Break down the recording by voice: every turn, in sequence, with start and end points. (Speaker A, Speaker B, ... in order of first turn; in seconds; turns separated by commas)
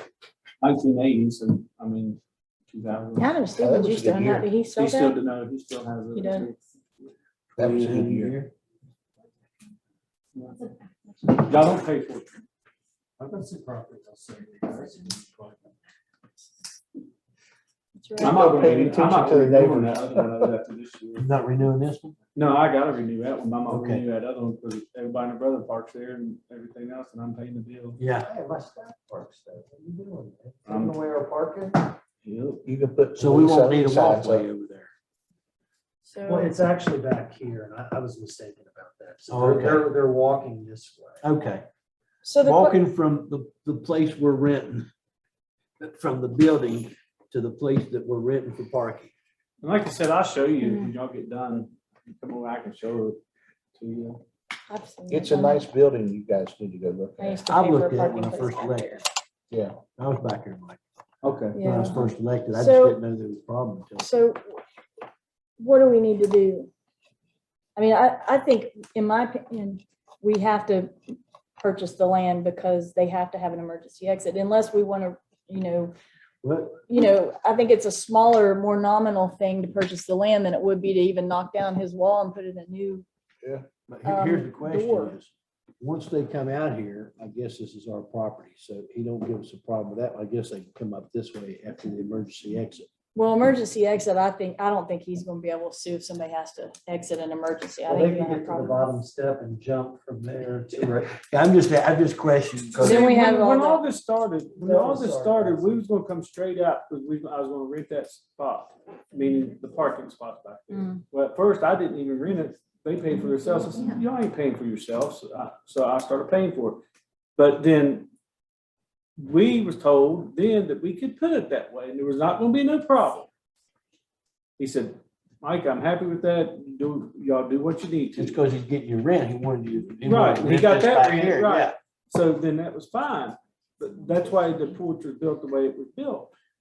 Speaker A: 0.6-3.4, Speaker B: 3.2-5.2, Speaker C: 3.6-4.5, Speaker A: 4.7-7.1, Speaker B: 6.1-6.5, Speaker D: 7.5-8.5, Speaker C: 7.6-8.3, Speaker B: 11.1-11.5, Speaker A: 11.4-12.3, Speaker E: 13.2-15.7, Speaker B: 18.0-18.6, Speaker C: 18.2-20.5, Speaker A: 18.2-21.3, Speaker D: 21.2-22.2, Speaker A: 22.3-28.0, Speaker D: 23.7-24.0, Speaker D: 28.0-28.3, Speaker E: 28.2-31.8, Speaker A: 30.6-31.0, Speaker A: 32.2-32.6, Speaker C: 32.6-34.5, Speaker D: 33.2-34.9, Speaker B: 36.0-36.5, Speaker E: 36.2-41.2, Speaker D: 39.3-39.9, Speaker D: 41.2-41.7, Speaker B: 42.2-42.8, Speaker D: 42.4-44.9, Speaker D: 45.8-49.1, Speaker A: 49.6-53.2, Speaker B: 50.6-50.9, Speaker A: 53.8-54.2, Speaker B: 54.7-55.7, Speaker C: 55.1-57.4, Speaker B: 57.2-59.0, Speaker D: 57.5-59.0, Speaker C: 59.5-59.8, Speaker D: 60.0-60.8, Speaker A: 61.2-61.6, Speaker B: 61.6-63.0, Speaker D: 61.6-64.1, Speaker B: 64.0-64.6, Speaker B: 65.6-66.7, Speaker B: 67.8-71.0, Speaker B: 71.6-75.9, Speaker D: 76.4-76.8, Speaker B: 76.9-83.1, Speaker D: 83.9-92.9, Speaker B: 84.0-85.2, Speaker B: 93.2-98.9, Speaker E: 97.9-101.2, Speaker D: 101.3-103.1, Speaker A: 102.8-116.8, Speaker B: 102.8-103.9, Speaker E: 104.6-105.8, Speaker A: 117.4-118.1, Speaker A: 119.2-123.3, Speaker A: 124.6-128.4, Speaker D: 128.2-131.8, Speaker A: 130.0-136.3